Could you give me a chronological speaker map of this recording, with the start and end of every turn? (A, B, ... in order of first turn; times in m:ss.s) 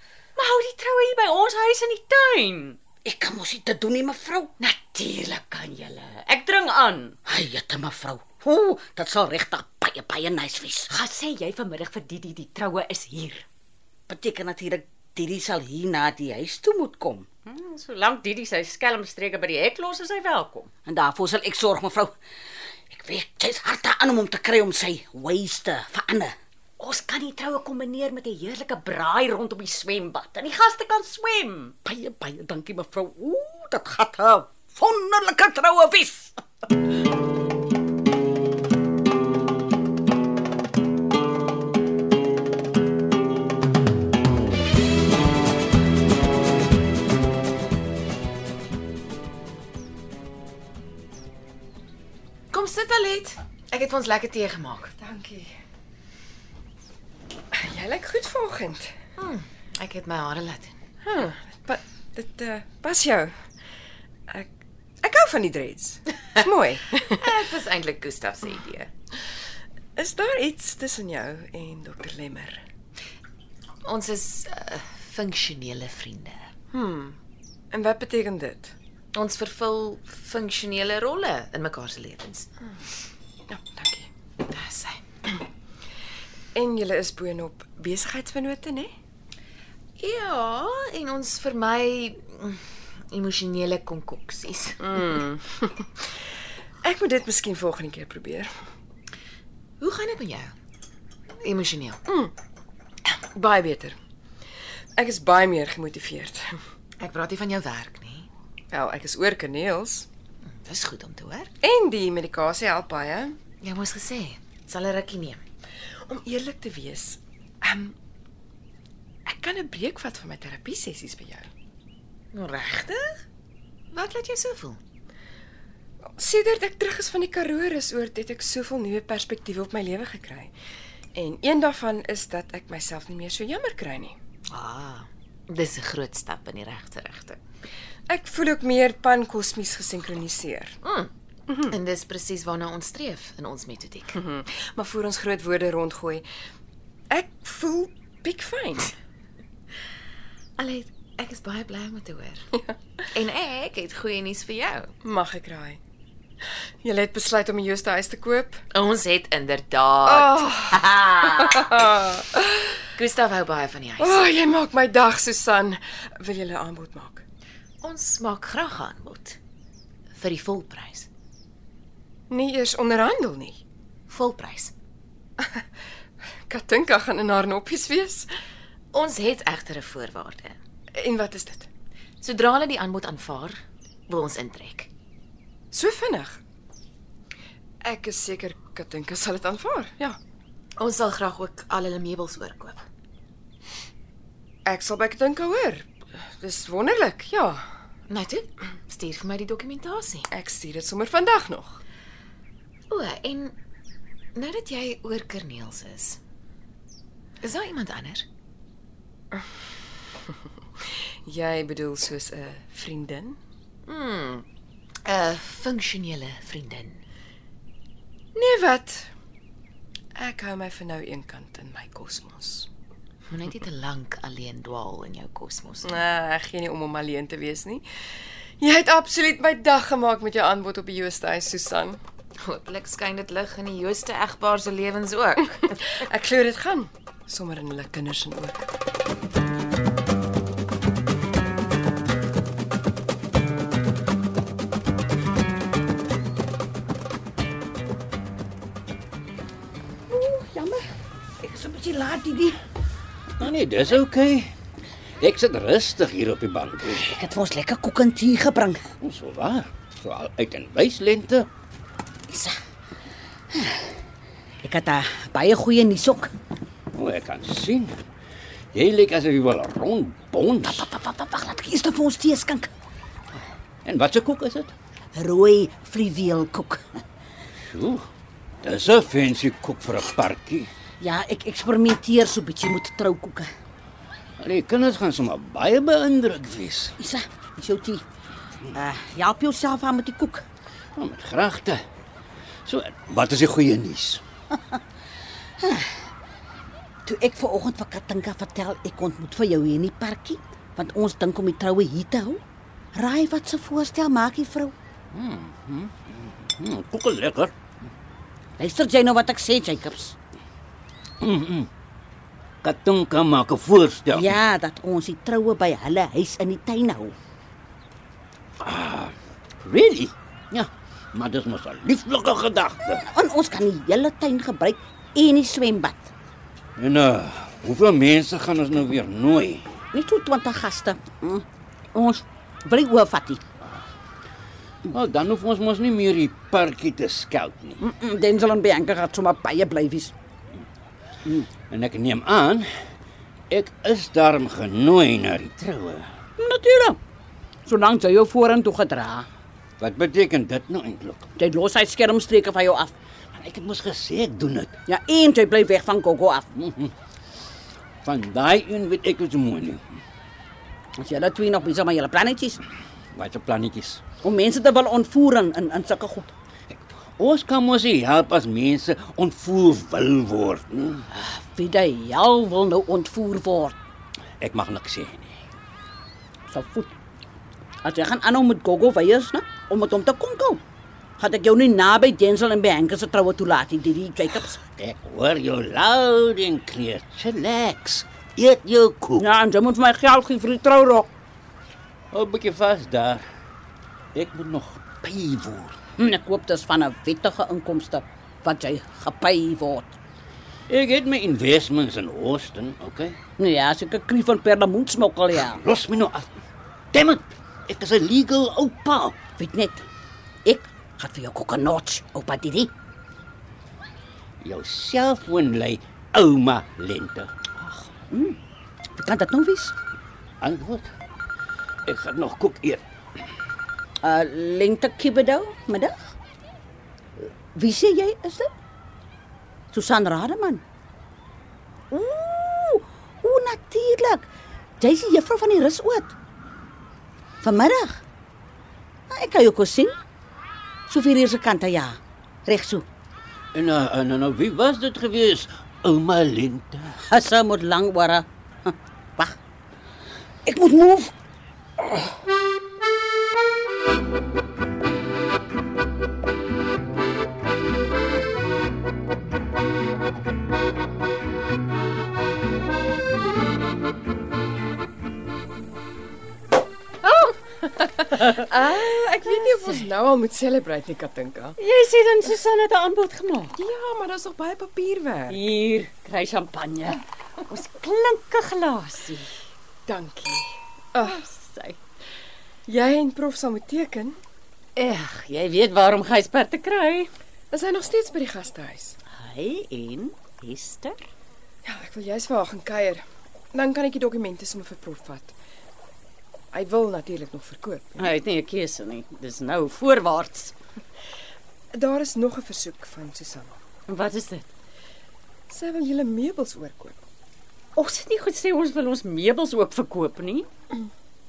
0:00.4-0:02.8 A
0:03.0-0:04.5 B
0:04.6-0:07.2 A
0:07.2-0:10.9 B
0:10.9-0:13.4 A
0:14.1-0:17.3 B
0:17.4-0:20.7 A
0:20.8-0:22.1 B
0:22.9-0:26.3 B
0:26.8-0:31.8 A
0:31.8-0:36.4 B
0:52.5-0:54.9 C
0:55.0-0:55.5 D
0:57.5-0:58.9 D
0:59.2-1:00.8 C
1:01.0-1:03.3 D
1:05.0-1:07.2 D
1:07.1-1:08.9 C
1:10.0-1:12.6 D
1:13.8-1:16.5 C
1:16.7-1:17.2 D
1:17.7-1:18.7 D
1:19.1-1:22.5 C
1:23.5-1:24.1 D
1:24.4-1:25.4 C
1:26.5-1:28.9 D
1:30.0-1:35.0 C
1:34.8-1:35.9 D
1:36.8-1:38.5 D
1:39.8-1:40.5 C
1:41.4-1:42.0 C
1:43.0-1:44.0 D
1:45.0-1:46.6 D
1:47.0-1:48.3 C
1:48.7-1:50.1 D
1:50.5-1:51.5 C
1:51.6-1:53.4 D
1:53.6-1:55.4 C
1:56.1-1:58.0 D
1:59.3-2:01.5 D
2:02.3-2:03.2 C
2:03.9-2:04.8 C
2:06.2-2:10.5 D
2:11.1-2:14.2 D
2:14.5-2:17.4 C
2:18.1-2:20.8 D
2:20.8-2:24.2 C
2:24.2-2:26.2 D
2:27.1-2:28.9 D
2:30.6-2:32.5 C
2:33.1-2:34.9 C
2:35.0-2:35.8 D
2:36.8-2:38.6 D
2:38.7-2:42.2 C
2:40.0-2:40.8 D
2:42.0-2:42.5 D
2:43.0-2:44.4 C
2:44.0-2:47.2 D
2:47.8-2:49.4 C
2:50.1-2:51.1 C
2:52.3-2:53.6 D
2:54.1-2:54.7 C
2:56.5-2:58.3 D
2:58.9-3:00.6 C
3:00.9-3:01.7 D
3:02.2-3:04.9 C
3:05.7-3:06.4 D
3:07.8-3:10.2 D
3:10.8-3:12.9 C
3:14.6-3:15.9 D
3:16.4-3:17.6 D
3:18.1-3:20.3 C
3:20.3-3:21.8 D
3:22.9-3:23.5 C
3:24.4-3:26.2 C
3:27.4-3:28.2 C
3:30.2-3:33.4 D
3:33.8-3:34.4 C
3:35.0-3:37.0 C
3:38.3-3:39.1 D
3:40.2-3:42.7 D
3:43.3-3:46.0 C
3:45.9-3:47.8 D
3:48.6-3:52.0 D
3:52.4-3:56.0 C
3:56.0-3:58.6 D
4:10.1-4:10.8 B
4:11.4-4:12.6 B
4:13.4-4:14.5 E
4:15.2-4:17.0 E
4:16.9-4:18.8 B
4:19.0-4:21.5 E
4:22.3-4:22.6 B
4:23.5-4:23.9 B
4:24.6-4:26.3 B
4:26.9-4:28.0 E
4:28.7-4:30.9 E
4:30.7-4:32.7 B
4:33.8-4:34.7 E
4:35.1-4:37.0 B
4:37.7-4:38.0 E
4:38.6-4:40.7 E
4:41.0-4:43.5 B
4:44.4-4:47.0 E
4:47.0-4:48.0 B
4:48.7-4:50.4 B
4:51.0-4:51.8 E
4:52.6-4:54.2 E
4:54.5-4:54.8 B
4:55.6-4:56.0 B
4:57.0-5:02.4 B
5:02.9-5:04.7 B
5:05.1-5:07.5 E
5:08.6-5:10.1 B
5:11.2-5:11.7 E
5:12.6-5:14.4 E
5:14.1-5:17.2 B
5:18.6-5:23.0 E
5:23.0-5:26.1 B
5:26.8-5:29.8 E
5:29.9-5:33.4 B
5:34.8-5:37.8 E
5:37.8-5:40.1 B
5:41.7-5:42.7 E
5:43.5-5:46.1 E
5:46.4-5:47.0 B
5:47.6-5:49.3 B
5:49.8-5:51.3 E
5:51.4-5:52.9 B
5:53.3-5:54.7 E
5:54.9-5:56.5 B
5:56.6-5:56.9 E
5:58.0-5:59.8 E
6:01.0-6:02.6 B
6:03.1-6:04.0 E
6:04.2-6:06.3 B
6:06.7-6:11.0 E
6:11.1-6:13.8 B
6:14.4-6:15.4 E
6:16.5-6:16.9 B
6:17.8-6:20.6 B
6:21.2-6:24.6 B
6:24.7-6:29.3 E
6:29.2-6:31.1 B
6:32.1-6:33.2 E
6:34.1-6:35.7 E
6:36.0-6:39.9 B
6:40.7-6:43.2 E
6:43.4-6:45.6 B
6:45.4-6:46.3 E
6:46.9-6:49.2 E
6:49.4-6:49.8 B
6:50.4-6:52.7 B
6:54.4-6:57.3 E
6:57.6-6:58.4 B
6:58.9-6:59.7 B
7:00.4-7:00.8 E
7:01.8-7:02.8 E
7:04.0-7:06.0 B
7:07.2-7:08.5 B
7:09.7-7:10.6 B
7:11.9-7:14.3 B
7:14.8-7:16.1 B
7:17.4-7:18.0 B
7:19.1-7:20.0 B
7:20.9-7:22.8 B
7:23.5-7:27.0 E
7:27.1-7:29.3 B
7:30.4-7:31.1 B
7:47.0-7:49.9 A
7:48.3-7:51.5 D
7:51.6-7:53.6 A
7:53.6-7:55.4 D
7:55.3-7:59.3 A
7:59.9-8:01.1 D
8:01.0-8:01.8 A
8:02.7-8:04.2 D
8:04.8-8:07.1 A
8:07.5-8:09.0 D
8:09.1-8:11.1 A
8:11.6-8:15.3 D
8:16.5-8:18.1 D
8:18.0-8:20.5 A
8:21.7-8:23.5 D
8:23.9-8:24.5 A
8:25.5-8:27.0 D
8:27.8-8:30.5 A